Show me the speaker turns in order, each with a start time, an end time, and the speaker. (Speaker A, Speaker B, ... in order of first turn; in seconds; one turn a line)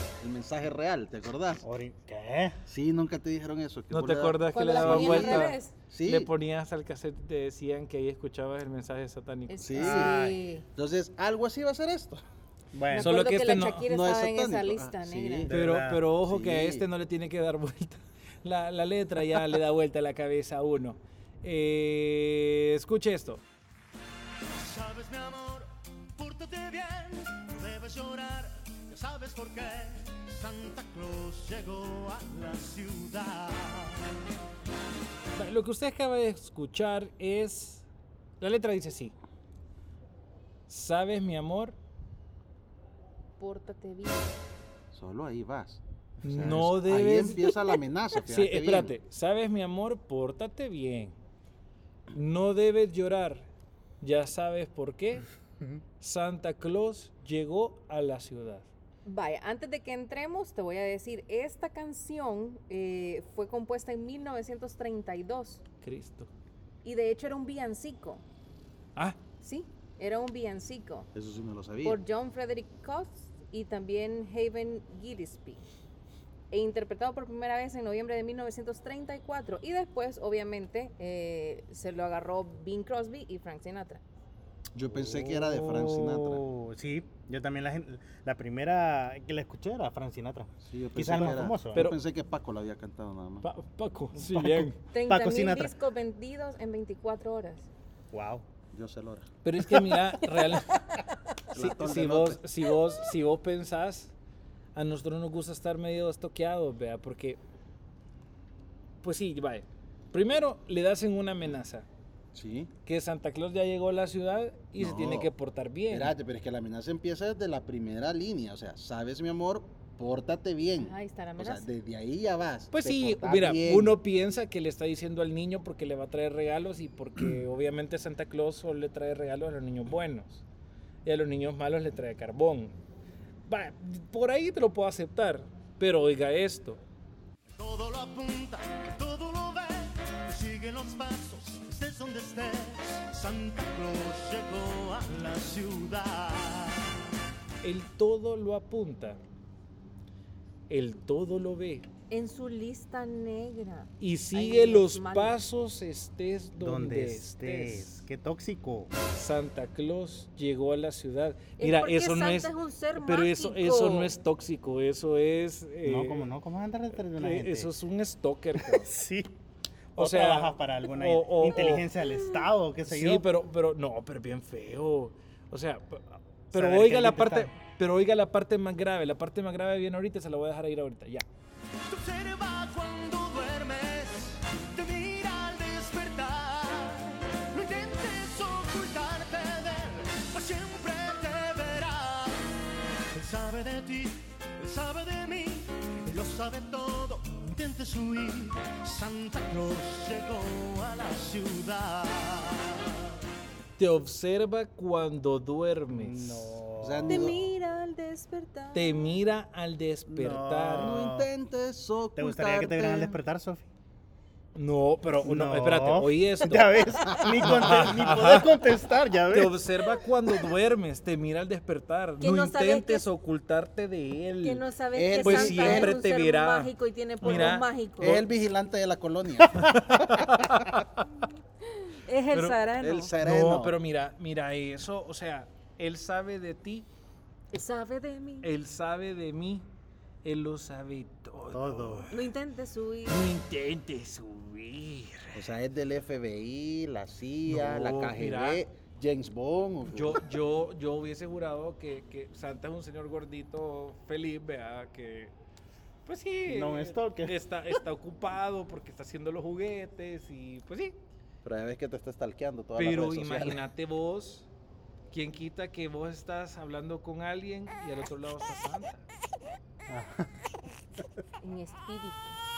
Speaker A: 0.2-1.6
Speaker B: 1.6-2.6
Speaker A: 2.7-6.3
Speaker C: 3.9-9.6
Speaker D: 4.5-5.7
Speaker D: 9.5-10.7
Speaker A: 9.6-10.2
Speaker B: 9.8-10.4
Speaker A: 10.8-12.2
Speaker B: 12.7-13.1
Speaker D: 12.9-15.5
Speaker C: 13.0-13.9
Speaker A: 13.8-15.5
Speaker B: 15.5-16.1
Speaker C: 15.5-23.4
Speaker A: 16.2-16.9
Speaker E: 24.6-34.0
Speaker C: 35.3-37.9
Speaker C: 38.4-39.1
Speaker C: 40.7-41.8
Speaker D: 43.4-44.4
Speaker A: 44.9-48.9
Speaker C: 46.2-47.5
Speaker C: 48.3-51.2
Speaker C: 52.1-53.5
Speaker C: 54.0-55.2
Speaker C: 56.0-58.7
Speaker D: 59.1-65.6
Speaker C: 65.8-66.3
Speaker D: 66.8-68.2
Speaker D: 69.4-71.1
Speaker A: 71.1-72.0
Speaker D: 71.8-75.6
Speaker D: 76.5-84.0
Speaker A: 84.7-86.4
Speaker B: 85.0-91.9
Speaker A: 90.7-93.4
Speaker C: 93.4-94.8
Speaker B: 94.2-95.8
Speaker D: 94.9-97.7
Speaker B: 98.1-98.4
Speaker A: 98.7-99.2
Speaker C: 99.4-101.0
Speaker A: 101.5-102.4
Speaker C: 101.5-104.1
Speaker C: 104.8-107.4
Speaker C: 109.0-111.9
Speaker A: 112.3-112.7
Speaker C: 112.8-116.1
Speaker A: 114.8-115.3
Speaker A: 115.9-124.0
Speaker D: 120.7-121.7
Speaker C: 122.7-130.4
Speaker C: 131.0-132.8
Speaker C: 133.5-136.8
Speaker E: 137.5-146.9
Speaker C: 147.6-149.2
Speaker C: 150.7-151.9
Speaker D: 152.1-155.4
Speaker C: 154.0-158.0
Speaker B: 156.6-158.9
Speaker C: 159.1-166.3
Speaker D: 161.6-164.1
Speaker B: 165.8-167.7
Speaker C: 166.9-168.9
Speaker B: 168.6-169.3
Speaker B: 169.9-173.3
Speaker C: 170.0-171.8
Speaker C: 172.9-181.2
Speaker B: 176.5-177.5
Speaker E: 181.9-192.4
Speaker E: 193.1-202.9
Speaker C: 203.8-206.6
Speaker B: 205.9-207.3
Speaker A: 206.8-207.4
Speaker D: 207.1-209.2
Speaker C: 208.7-211.0
Speaker B: 210.1-211.3
Speaker A: 210.8-213.2
Speaker B: 212.2-213.7
Speaker C: 214.5-218.5
Speaker B: 215.2-219.5
Speaker C: 219.3-224.7
Speaker D: 222.2-223.1
Speaker D: 224.4-228.3
Speaker A: 224.9-226.0
Speaker C: 225.2-227.7
Speaker A: 227.2-230.7
Speaker C: 229.5-231.0
Speaker D: 231.7-233.1
Speaker C: 232.3-232.7
Speaker A: 232.8-233.8
Speaker C: 233.2-236.9
Speaker D: 237.5-238.5
Speaker C: 238.4-239.7
Speaker C: 240.2-242.2
Speaker B: 241.5-242.1
Speaker D: 242.1-243.3
Speaker C: 243.1-245.5
Speaker A: 245.3-250.2
Speaker C: 247.5-248.7
Speaker C: 249.9-255.3
Speaker C: 256.0-261.0
Speaker B: 256.4-257.4
Speaker A: 261.4-263.6
Speaker C: 262.8-264.5
Speaker C: 265.1-269.0
Speaker B: 269.9-270.4
Speaker D: 271.4-272.4